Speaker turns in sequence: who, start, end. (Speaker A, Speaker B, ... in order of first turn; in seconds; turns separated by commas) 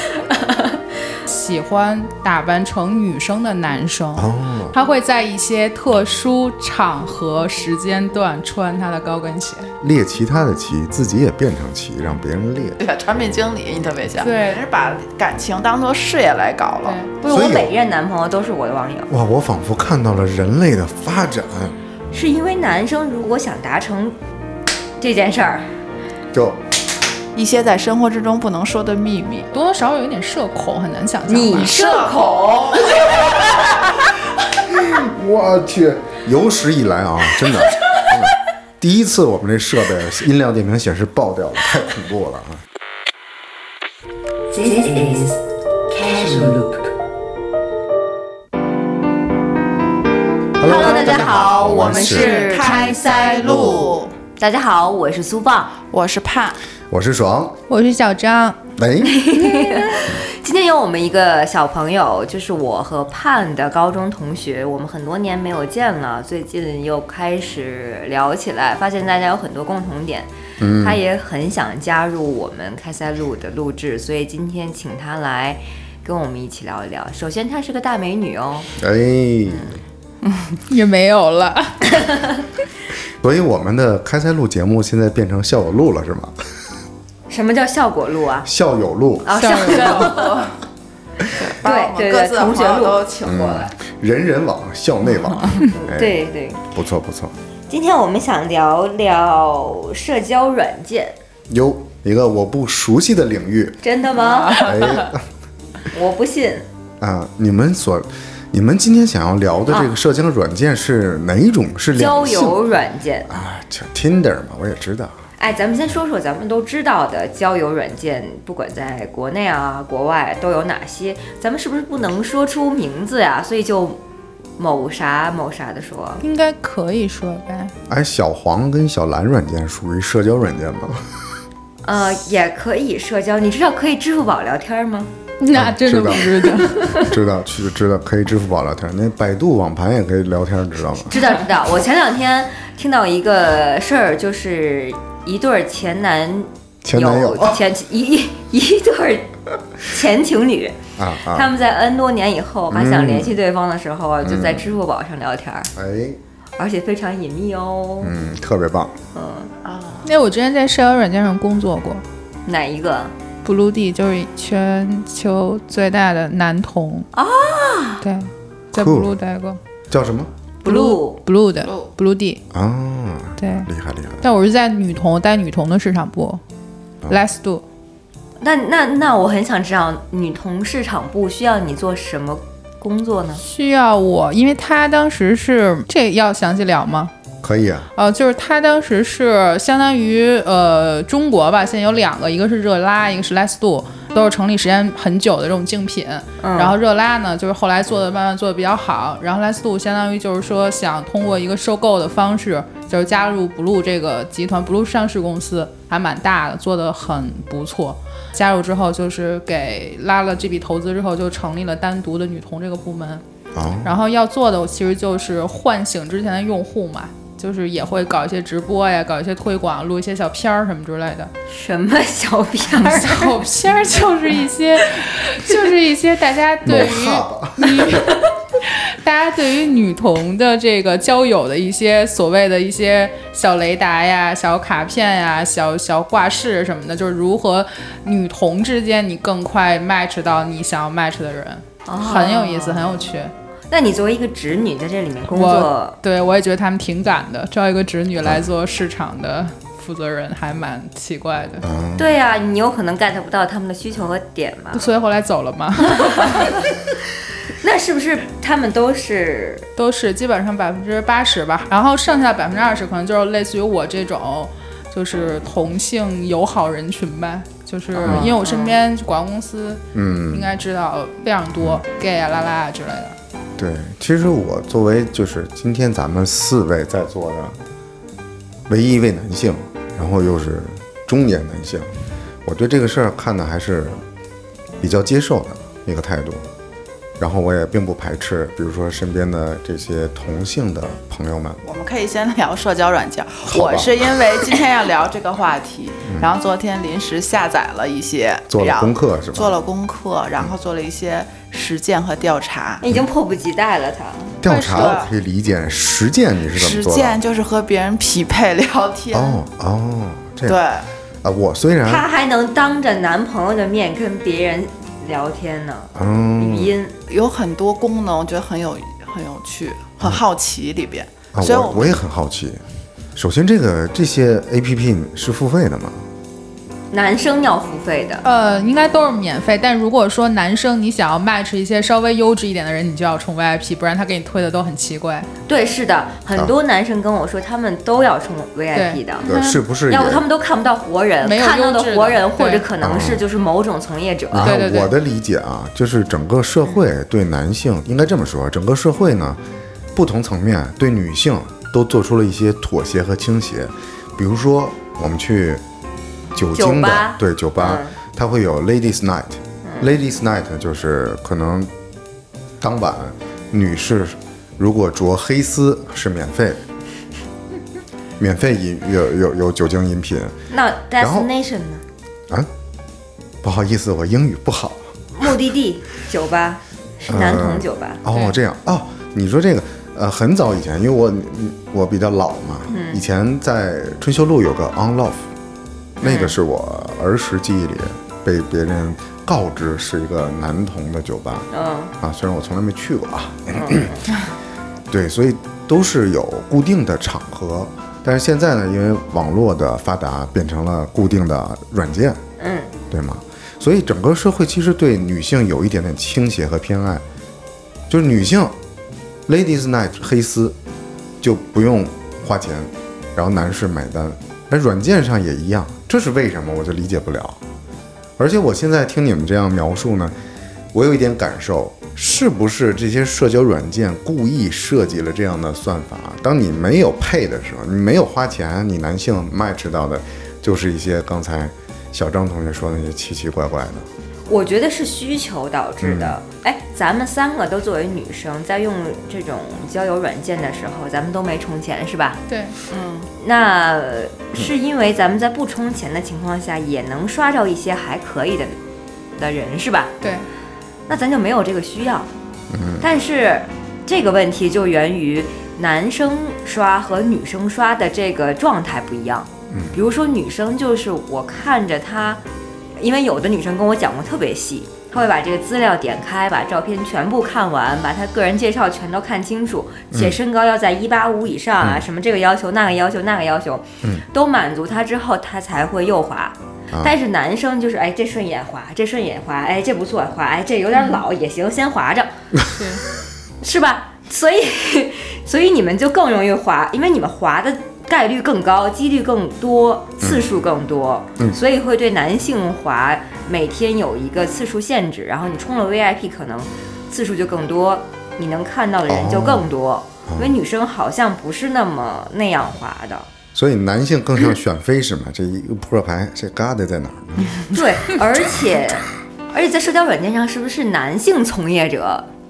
Speaker A: 0.3-0.7, Speaker B: 1.3-9.7, Speaker C: 4.2-4.8, Speaker C: 9.8-12.8, Speaker D: 12.8-17.0, Speaker B: 14.2-14.6, Speaker B: 16.8-17.1, Speaker A: 17.2-19.1, Speaker C: 17.3-17.7, Speaker C: 19.1-21.8, Speaker A: 22.1-24.2, Speaker A: 25.0-25.7, Speaker C: 26.3-26.6, Speaker D: 27.4-29.5, Speaker B: 29.5-32.1, Speaker A: 31.3-32.5, Speaker D: 31.5-34.0, Speaker C: 34.7-42.6, Speaker A: 44.5-46.9, Speaker C: 50.6-52.5, Speaker A: 50.6-55.7, Speaker D: 50.6-54.1, Speaker C: 53.4-53.7, Speaker D: 55.9-56.6, Speaker C: 56.9-57.5, Speaker B: 57.7-58.6, Speaker C: 58.8-59.3, Speaker A: 59.0-78.7, Speaker B: 59.4-59.9, Speaker C: 70.6-71.0, Speaker C: 78.8-79.8, Speaker A: 79.5-79.8, Speaker B: 80.6-82.0, Speaker A: 82.0-82.2, Speaker C: 83.2-86.4, Speaker A: 87.3-88.5, Speaker C: 88.4-89.3, Speaker A: 89.2-90.4, Speaker B: 89.3-90.2, Speaker D: 89.6-90.5, Speaker D: 91.3-93.7, Speaker A: 91.6-93.1, Speaker C: 93.2-96.2, Speaker A: 95.7-96.6, Speaker C: 96.7-97.4, Speaker A: 97.7-101.2, Speaker C: 101.5-103.8, Speaker A: 103.8-105.0, Speaker C: 104.6-105.2, Speaker A: 105.9-106.7, Speaker C: 107.0-112.6, Speaker A: 109.7-109.9, Speaker A: 112.0-113.3, Speaker C: 113.3-115.2, Speaker A: 115.4-124.0, Speaker A: 124.6-126.2, Speaker B: 126.2-127.7, Speaker C: 127.9-131.2, Speaker A: 131.8-135.1, Speaker B: 135.4-137.1, Speaker C: 135.6-141.2, Speaker A: 136.8-137.0, Speaker A: 141.1-155.7, Speaker C: 146.8-147.6, Speaker C: 151.0-151.5, Speaker C: 152.7-153.3, Speaker C: 154.2-154.7, Speaker C: 155.8-156.2, Speaker A: 156.6-158.1, Speaker C: 158.0-158.9, Speaker A: 159.1-159.5, Speaker D: 159.7-160.1, Speaker B: 160.0-162.0, Speaker A: 162.5-163.1, Speaker B: 163.4-167.1, Speaker A: 167.1-168.0, Speaker B: 168.0-169.6, Speaker C: 168.8-169.1, Speaker C: 169.9-170.3, Speaker A: 170.6-171.2, Speaker B: 170.7-172.4, Speaker D: 171.6-171.9, Speaker C: 172.5-174.2, Speaker B: 173.4-173.7, Speaker B: 174.2-176.4, Speaker B: 177.1-177.6, Speaker A: 178.4-183.4, Speaker B: 183.4-187.1, Speaker C: 187.4-187.9, Speaker B: 188.0-213.2, Speaker A: 196.4-196.8, Speaker C: 213.6-213.9, Speaker B: 213.8-221.3, Speaker A: 221.5-223.5, Speaker B: 222.8-243.3, Speaker C: 226.7-228.1, Speaker A: 241.8-243.0, Speaker A: 243.7-246.0, Speaker B: 245.3-251.7, Speaker C: 251.6-252.1, Speaker A: 252.0-254.9, Speaker B: 254.7-256.6, Speaker A: 255.9-256.6, Speaker A: 257.5-259.7, Speaker B: 259.8-273.1, Speaker C: 267.9-268.4, Speaker A: 268.0-268.8, Speaker C: 269.9-270.5, Speaker C: 273.6-277.6, Speaker C: 278.7-281.9, Speaker C: 282.4-284.0, Speaker C: 284.8-286.4, Speaker C: 287.2-291.6, Speaker D: 291.6-302.8, Speaker C: 293.5-293.9, Speaker C: 296.1-296.3, Speaker C: 298.5-299.5, Speaker A: 302.8-304.3, Speaker C: 304.4-307.2, Speaker B: 304.4-305.0, Speaker D: 304.7-305.1, Speaker D: 306.5-309.4, Speaker C: 309.1-310.6, Speaker D: 310.4-310.9, Speaker C: 311.2-312.0, Speaker A: 311.8-316.9, Speaker C: 315.9-316.8, Speaker D: 317.1-322.0, Speaker C: 321.3-322.6, Speaker C: 323.1-326.0, Speaker A: 326.9-328.2, Speaker B: 328.2-335.3, Speaker A: 335.5-339.3, Speaker B: 338.7-339.6, Speaker C: 339.2-340.2, Speaker A: 339.9-344.5, Speaker B: 341.2-342.6, Speaker C: 342.8-343.2, Speaker C: 344.3-349.4, Speaker B: 344.4-344.9, Speaker C: 349.9-355.6, Speaker C: 356.3-361.7, Speaker A: 356.5-357.9, Speaker A: 359.6-359.9, Speaker C: 362.6-366.6, Speaker C: 368.2-370.4, Speaker A: 370.5-371.8, Speaker C: 371.0-371.3, Speaker C: 373.4-374.9, Speaker A: 375.1-378.0, Speaker C: 377.1-385.3, Speaker A: 382.7-383.0, Speaker A: 386.0-386.3, Speaker C: 386.0-391.5, Speaker A: 391.5-391.9, Speaker C: 392.0-393.9, Speaker A: 393.5-394.1, Speaker C: 394.9-402.2, Speaker A: 402.4-402.8, Speaker C: 402.9-407.0, Speaker C: 407.9-408.6, Speaker C: 409.3-410.6, Speaker C: 411.2-417.4, Speaker C: 418.2-420.1, Speaker C: 420.7-433.9, Speaker A: 434.3-442.2, Speaker C: 435.8-436.2, Speaker B: 442.3-442.5, Speaker D: 442.7-443.1, Speaker A: 443.2-448.6, Speaker A: 449.2-449.9, Speaker B: 450.0-450.2, Speaker A: 450.9-452.1, Speaker C: 452.5-452.8, Speaker A: 452.8-462.2, Speaker C: 459.5-459.8, Speaker A: 462.8-482.1, Speaker C: 471.6-471.9, Speaker B: 482.5-482.8, Speaker A: 483.4-503.1, Speaker C: 498.9-499.5, Speaker C: 500.1-500.4, Speaker C: 503.3-507.4, Speaker A: 507.5-512.1, Speaker C: 508.0-508.5